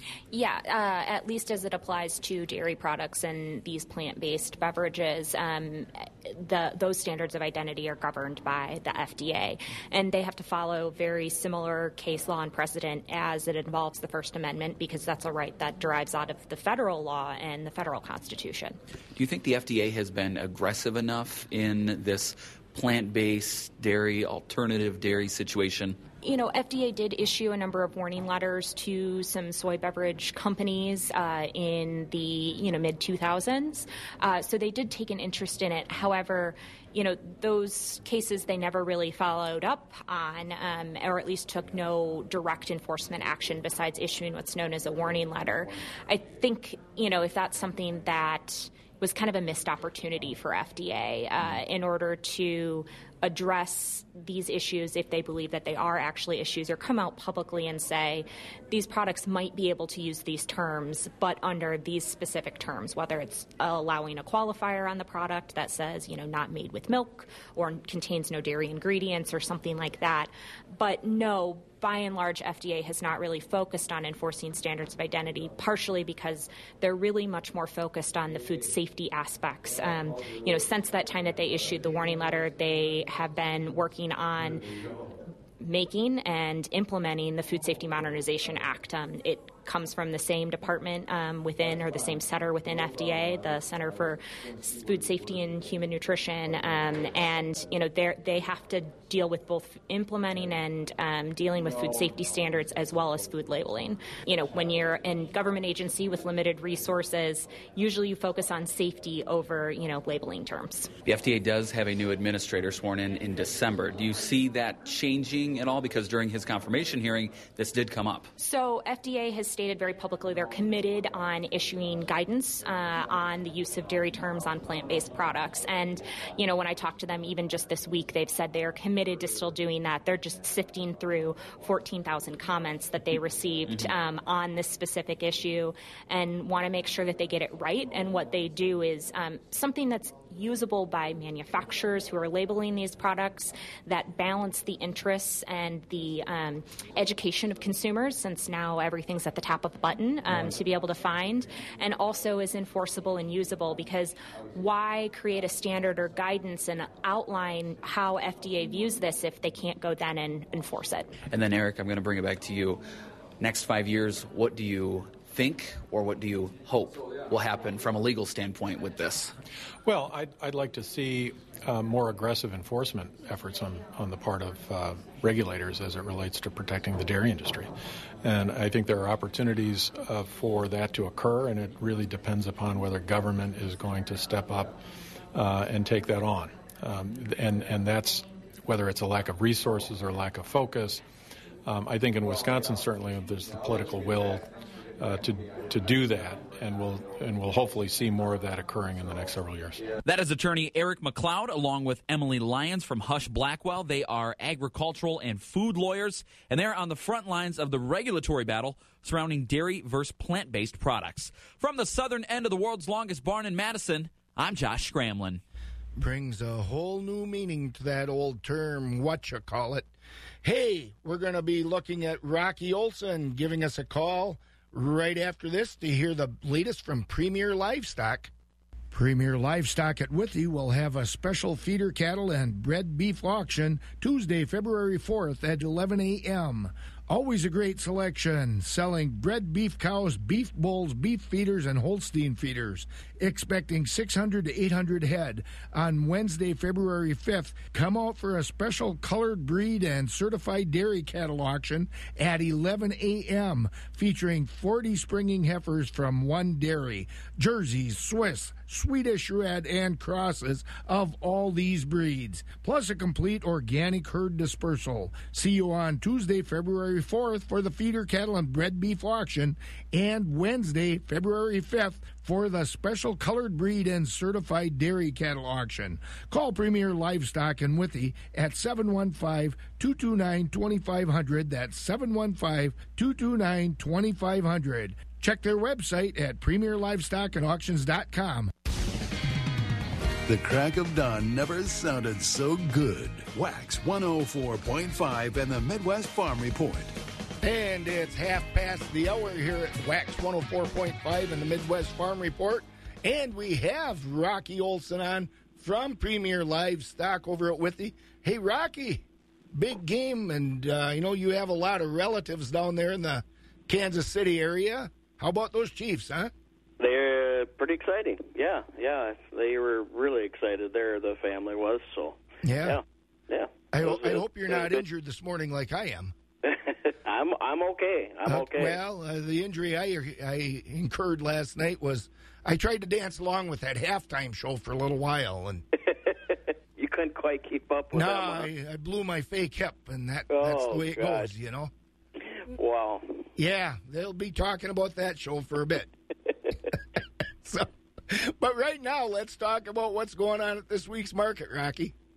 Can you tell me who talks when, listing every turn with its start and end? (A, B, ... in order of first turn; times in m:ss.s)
0:00.3-0:18.8 A
0:19.2-0:26.0 B
0:26.2-1:24.7 A
1:25.6-1:50.9 A
1:51.0-1:58.3 B
1:58.4-2:41.2 A
2:41.3-2:42.8 B
2:43.4-2:49.3 B
2:49.8-2:57.7 C
2:58.2-3:04.8 C
3:05.3-3:11.0 C
3:11.6-3:19.9 C
3:20.0-3:35.4 D
3:36.0-3:39.9 E
3:40.4-3:48.3 E
3:48.9-4:48.5 E
4:50.3-4:56.9 F
4:57.4-5:16.3 E
5:16.8-5:24.8 G
5:22.4-5:22.8 E
5:23.7-5:26.1 E
5:26.4-5:28.8 G
5:28.3-5:35.6 E
5:35.8-5:38.5 G
5:37.9-5:41.7 E
5:40.3-5:41.3 G
5:42.5-5:43.3 G
5:43.4-5:45.9 E
5:47.4-5:51.9 E